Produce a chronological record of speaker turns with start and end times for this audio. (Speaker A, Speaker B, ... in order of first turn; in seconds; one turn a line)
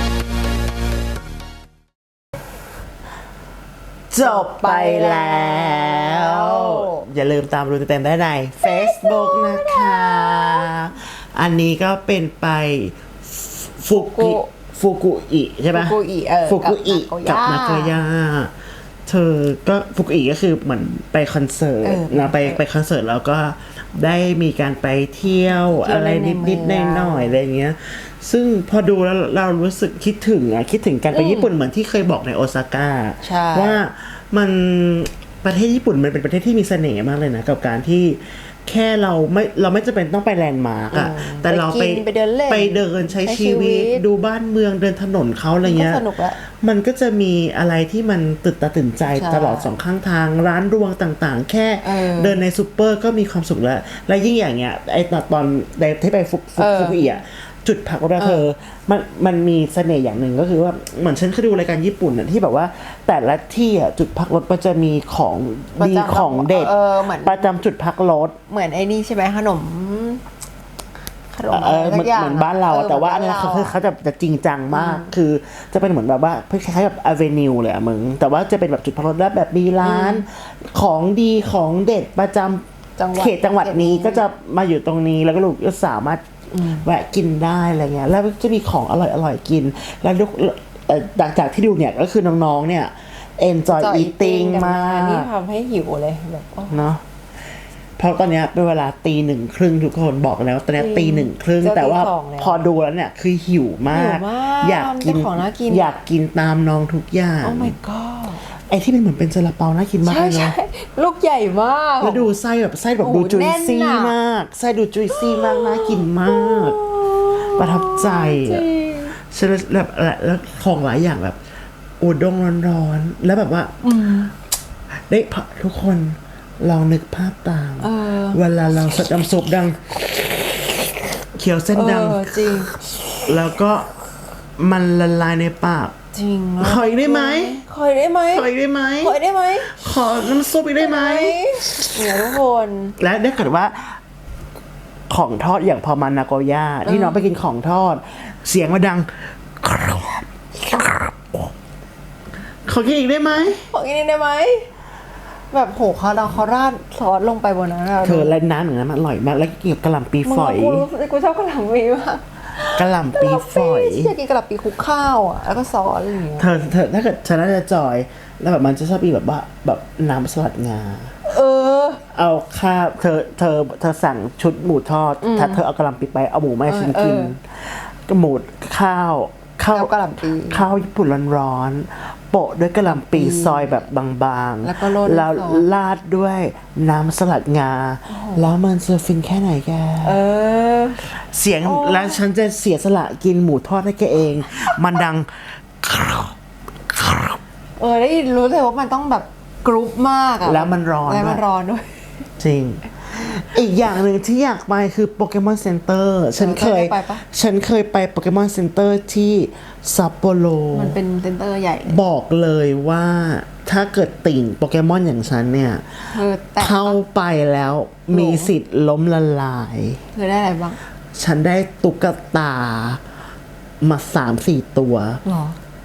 Speaker A: 4.1-18.5
Speaker B: 4.2-7.0
Speaker B: 8.6-10.7
Speaker B: 13.9-14.5
Speaker B: 15.7-17.9
Speaker A: 19.1-68.4
Speaker B: 21.8-22.6
Speaker B: 25.5-27.4
Speaker B: 31.1-31.5
Speaker B: 33.2-33.8
Speaker B: 40.9-44.0
Speaker B: 45.6-46.4
Speaker B: 49.1-49.7
Speaker B: 51.8-52.4
Speaker B: 56.6-57.2
Speaker B: 58.2-58.5
Speaker B: 65.8-67.5
Speaker B: 68.5-70.2
Speaker B: 71.3-73.8
Speaker A: 71.5-82.6
Speaker B: 74.7-75.2
Speaker B: 79.8-80.2
Speaker B: 83.0-84.2
Speaker A: 83.1-95.3
Speaker B: 86.5-86.8
Speaker B: 93.7-96.8
Speaker A: 96.7-97.0
Speaker A: 98.0-107.8
Speaker B: 100.8-102.6
Speaker B: 103.9-105.9
Speaker B: 107.4-108.4
Speaker A: 108.7-110.5
Speaker B: 110.0-112.3
Speaker A: 112.0-116.8
Speaker B: 113.0-114.1
Speaker B: 115.1-119.2
Speaker A: 117.4-118.7
Speaker A: 119.2-121.4
Speaker A: 122.0-123.8
Speaker B: 123.8-124.3
Speaker A: 125.1-133.9
Speaker B: 127.8-128.4
Speaker B: 131.7-132.8
Speaker A: 134.6-135.9
Speaker B: 136.1-139.8
Speaker A: 136.6-137.6
Speaker A: 138.3-139.2
Speaker A: 139.7-142.0
Speaker B: 140.8-143.0
Speaker A: 143.0-144.0
Speaker A: 145.1-151.5
Speaker B: 146.8-147.3
Speaker A: 152.7-153.7
Speaker B: 153.3-154.7
Speaker B: 155.5-158.3
Speaker A: 158.0-160.8
Speaker B: 160.2-166.5
Speaker A: 162.8-164.1
Speaker A: 166.4-171.1
Speaker B: 171.3-172.0
Speaker A: 172.1-179.9
Speaker B: 175.2-175.6
Speaker B: 176.7-177.3
Speaker B: 179.7-180.7
Speaker A: 180.5-190.2
Speaker B: 182.9-183.8
Speaker B: 184.6-185.7
Speaker B: 188.1-188.5
Speaker B: 190.0-191.0
Speaker A: 191.0-196.4
Speaker B: 191.6-192.2
Speaker A: 196.9-197.4
Speaker B: 197.8-202.1
Speaker A: 200.4-201.4
Speaker A: 202.4-211.0
Speaker B: 206.4-207.2
Speaker B: 210.7-212.0
Speaker A: 211.9-220.0
Speaker B: 216.1-217.0
Speaker B: 218.1-218.5
Speaker B: 220.1-220.8
Speaker A: 221.2-223.0
Speaker A: 223.8-225.2
Speaker B: 225.2-225.6